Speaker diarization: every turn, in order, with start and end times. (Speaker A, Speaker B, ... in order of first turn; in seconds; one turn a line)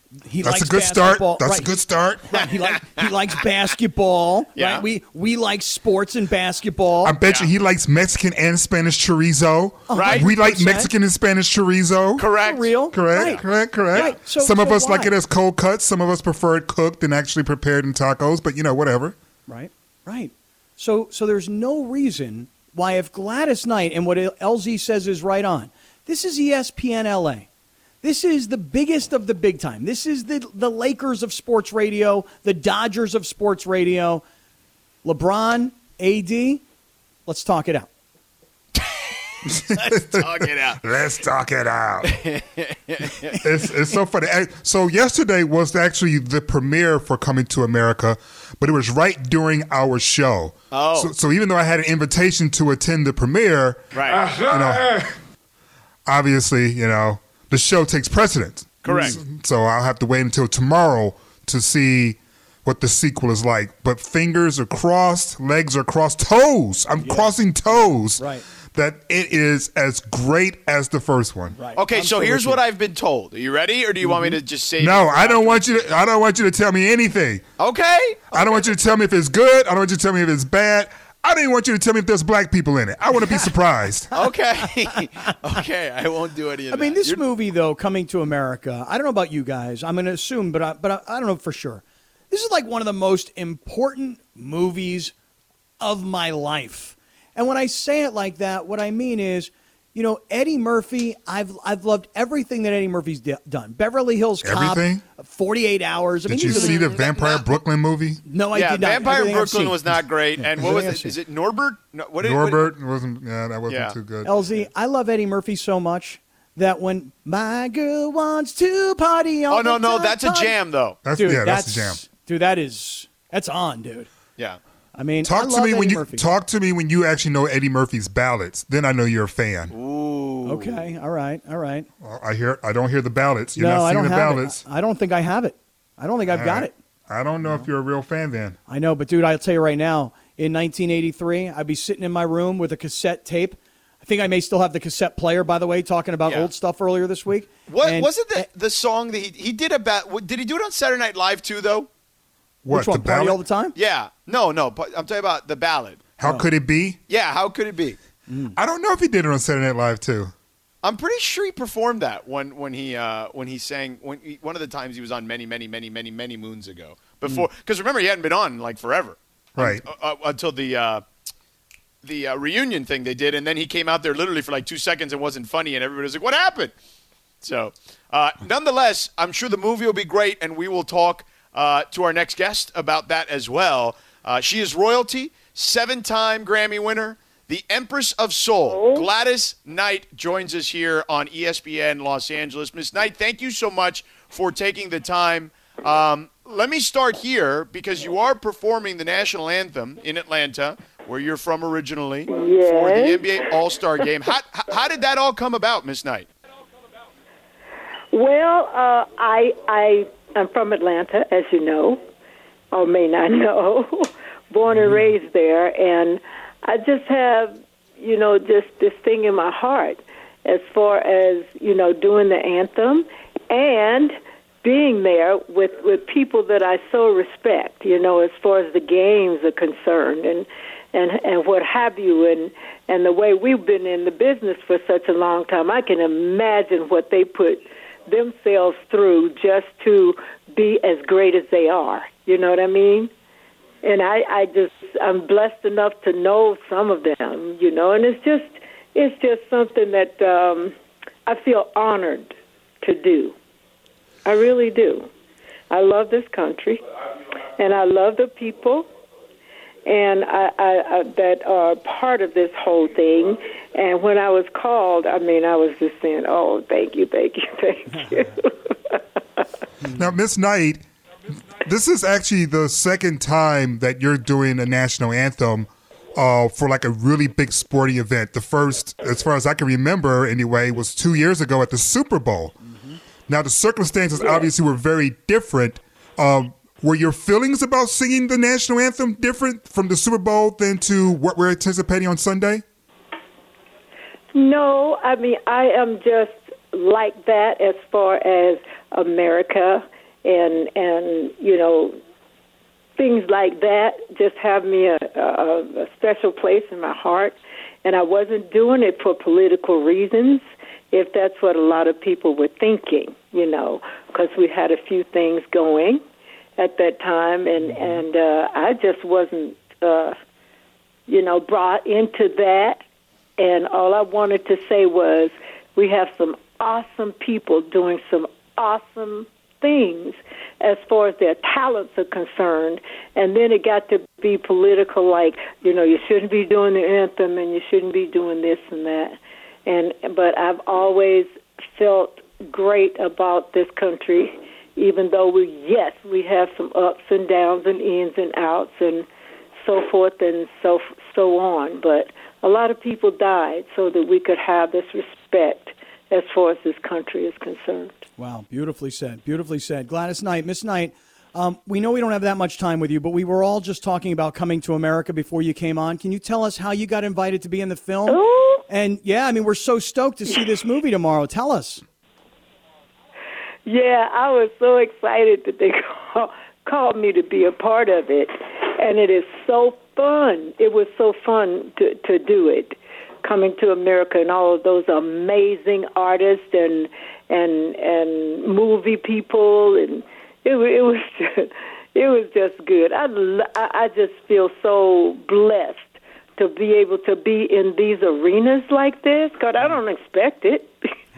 Speaker A: 0.2-1.8
Speaker B: 0.4-2.5
Speaker A: 2.3-7.2
Speaker C: 2.3-3.1
Speaker C: 4.5-4.8
Speaker B: 7.0-12.3
Speaker C: 7.2-7.5
Speaker A: 9.9-10.9
Speaker C: 9.9-10.3
Speaker C: 12.2-13.4
Speaker A: 12.4-15.1
Speaker B: 12.9-19.1
Speaker A: 19.5-27.5
Speaker A: 28.0-34.2
Speaker A: 35.0-36.6
Speaker A: 37.2-37.9
Speaker C: 38.7-40.8
Speaker B: 39.5-42.2
Speaker C: 42.1-43.4
Speaker B: 43.4-55.1
Speaker C: 50.7-51.1
Speaker C: 53.9-54.3
Speaker B: 56.1-71.6
Speaker C: 58.8-59.2
Speaker A: 58.9-59.2
Speaker A: 67.0-68.4
Speaker A: 71.5-72.6
Speaker C: 71.7-75.8
Speaker A: 74.0-74.4
Speaker B: 74.8-77.5
Speaker C: 77.6-78.4
Speaker B: 78.3-84.2
Speaker C: 84.1-87.2
Speaker A: 86.7-95.1
Speaker A: 95.8-106.9
Speaker B: 104.4-105.0
Speaker B: 106.3-108.2
Speaker C: 106.5-107.5
Speaker A: 108.2-111.1
Speaker C: 108.5-112.7
Speaker B: 112.2-114.7
Speaker C: 113.7-114.0
Speaker A: 114.2-120.5
Speaker C: 119.5-121.0
Speaker B: 121.0-122.0
Speaker A: 121.2-124.1
Speaker A: 124.9-126.3
Speaker B: 125.2-129.7
Speaker C: 129.7-130.8
Speaker A: 130.4-131.9
Speaker B: 132.0-134.6
Speaker A: 133.6-136.7
Speaker B: 136.3-138.6
Speaker A: 137.4-137.7
Speaker A: 138.7-148.4
Speaker C: 147.7-151.9
Speaker B: 152.6-153.4
Speaker A: 152.7-153.8
Speaker C: 153.8-156.0
Speaker B: 156.2-157.0
Speaker A: 156.2-156.5
Speaker C: 157.1-158.0
Speaker A: 158.3-158.6
Speaker B: 158.6-160.3
Speaker C: 160.8-171.0
Speaker B: 169.6-169.8
Speaker C: 172.0-176.7
Speaker C: 177.4-206.3
Speaker D: 188.7-189.0
Speaker D: 202.3-203.4
Speaker D: 208.1-212.0
Speaker D: 212.7-243.1
Speaker D: 243.8-250.7
Speaker D: 251.3-253.3
Speaker D: 254.2-255.1
Speaker D: 255.7-256.8
Speaker D: 257.6-258.9
Speaker D: 259.9-269.0
Speaker A: 267.9-268.3
Speaker A: 269.8-270.1
Speaker B: 269.9-270.8
Speaker B: 271.5-282.6
Speaker A: 282.6-283.0
Speaker B: 283.3-292.6
Speaker D: 294.3-302.0
Speaker D: 303.0-316.0
Speaker D: 316.6-320.1
Speaker D: 321.1-322.8
Speaker D: 323.4-349.1
Speaker D: 349.6-357.9
Speaker A: 358.2-371.8
Speaker D: 368.1-368.6
Speaker D: 373.6-400.7